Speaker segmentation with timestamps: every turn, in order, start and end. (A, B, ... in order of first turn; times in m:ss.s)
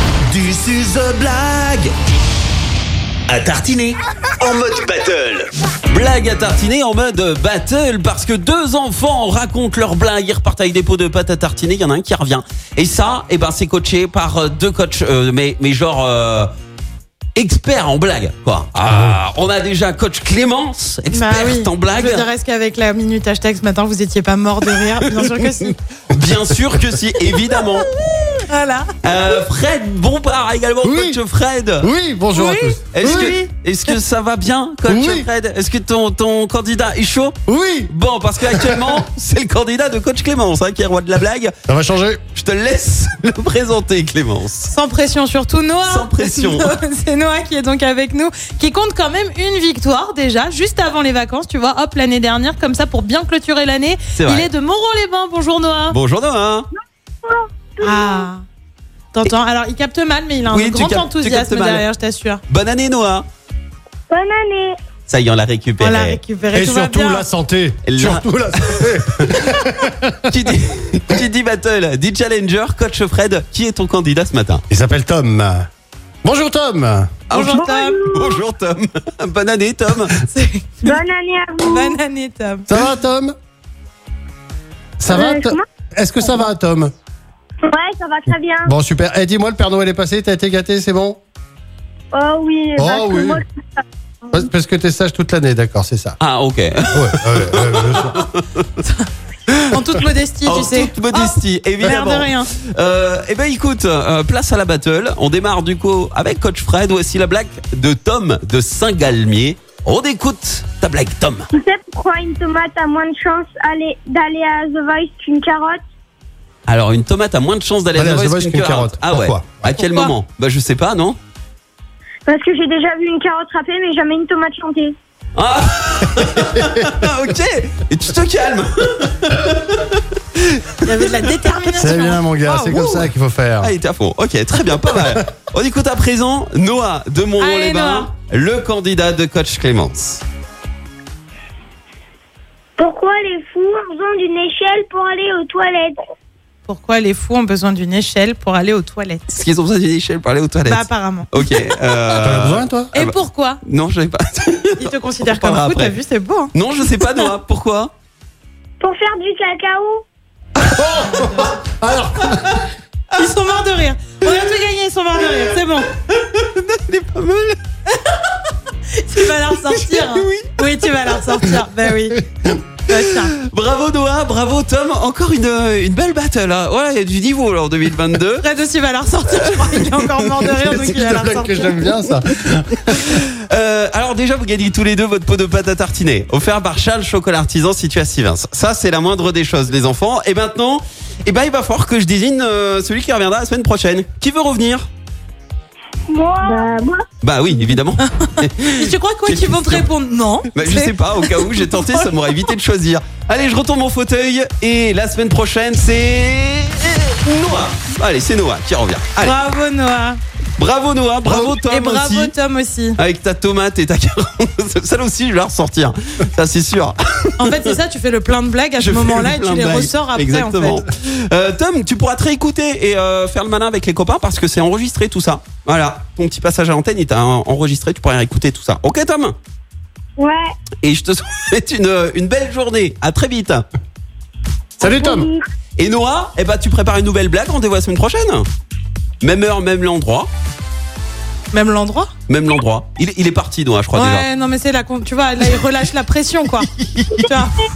0:00.2-0:01.9 A
0:03.3-0:05.5 A
0:05.9-0:16.5 B
0:17.4-0:22.3 B
0:18.8-0:19.2 C
0:21.1-0:25.8 D
0:25.0-0:27.9 B
0:28.4-0:28.9 D
0:29.0-0:31.9 B
0:30.8-0:31.2 C
0:31.8-0:33.4 C
0:32.4-0:33.3 D
0:32.9-0:37.4 B
0:34.8-0:35.3 C
0:37.5-0:37.9 C
0:37.9-0:41.5 B
0:38.4-0:39.0 C
0:41.7-0:42.2 C
0:42.3-0:44.7 B
0:44.7-0:56.0 D
0:45.8-0:46.7 B
0:54.2-0:54.5 B
0:55.9-0:56.7 B
0:57.2-0:58.3 E
0:57.8-0:58.4 D
0:59.1-1:02.4 D
1:00.5-1:01.8 B
1:02.5-1:03.2 B
1:04.1-1:04.8 E
1:05.1-1:06.2 B
1:05.8-1:07.2 D
1:06.5-1:10.2 C
1:07.8-1:09.5 B
1:10.3-1:14.6 B
1:14.7-1:15.6 C
1:16.2-1:17.1 C
1:17.3-1:20.2 B
1:17.3-1:18.0 D
1:17.5-1:18.4 E
1:20.2-1:21.0 D
1:20.8-1:22.0 E
1:21.6-1:22.7 D
1:22.7-1:23.3 C
1:25.0-1:26.9 C
1:25.1-1:25.6 E
1:27.6-1:28.7 E
1:28.6-1:31.2 C
1:32.1-1:33.8 E
1:32.8-1:33.4 C
1:34.3-1:36.2 C
1:36.2-1:38.6 B
1:36.9-1:38.2 C
1:38.8-1:39.1 D
1:39.5-1:39.8 B
1:39.7-1:42.5 D
1:40.4-1:51.5 B
1:51.5-1:55.8 E
1:56.7-2:01.2 B
1:57.9-1:59.6 C
1:59.7-2:00.1 D
2:02.3-2:04.9 E
2:05.4-2:10.7 B
2:06.2-2:06.9 C
2:10.8-2:13.1 D
2:11.7-2:13.7 C
2:13.6-2:20.2 B
2:17.4-2:18.1 D
2:22.8-2:26.0 E
2:26.7-2:29.2 D
2:29.3-2:36.0 B
2:30.7-2:31.9 D
2:32.2-2:32.9 C
2:32.9-2:33.6 D
2:34.8-2:37.2 D
2:36.5-2:37.9 B
2:38.8-2:40.0 E
2:40.6-2:42.6 C
2:41.0-2:41.6 D
2:42.2-2:42.6 B
2:43.1-2:45.9 D
2:46.1-2:47.6 B
2:48.9-2:52.3 D
2:49.5-2:51.4 B
2:52.8-2:53.3 D
2:52.9-2:58.4 B
2:58.4-3:02.0 D
2:59.3-3:00.9 B
3:00.8-3:03.2 C
3:02.9-3:14.9 B
3:16.1-3:17.0 E
3:17.2-3:19.9 B
3:18.0-3:22.5 D
3:20.5-3:29.4 B
3:29.2-3:30.2 D
3:30.6-3:32.3 B
3:31.2-3:33.0 D
3:33.0-3:37.8 B
3:37.4-3:40.8 D
3:38.8-3:49.3 B
3:50.2-3:50.5 E
3:50.8-3:53.6 B
3:54.8-3:55.3 C
3:54.8-3:55.4 E
3:55.8-3:58.4 B
3:59.2-4:00.3 B
4:01.5-4:02.1 D
4:02.3-4:04.3 B
4:03.9-4:06.7 D
4:06.8-4:07.3 B
4:07.2-4:07.6 D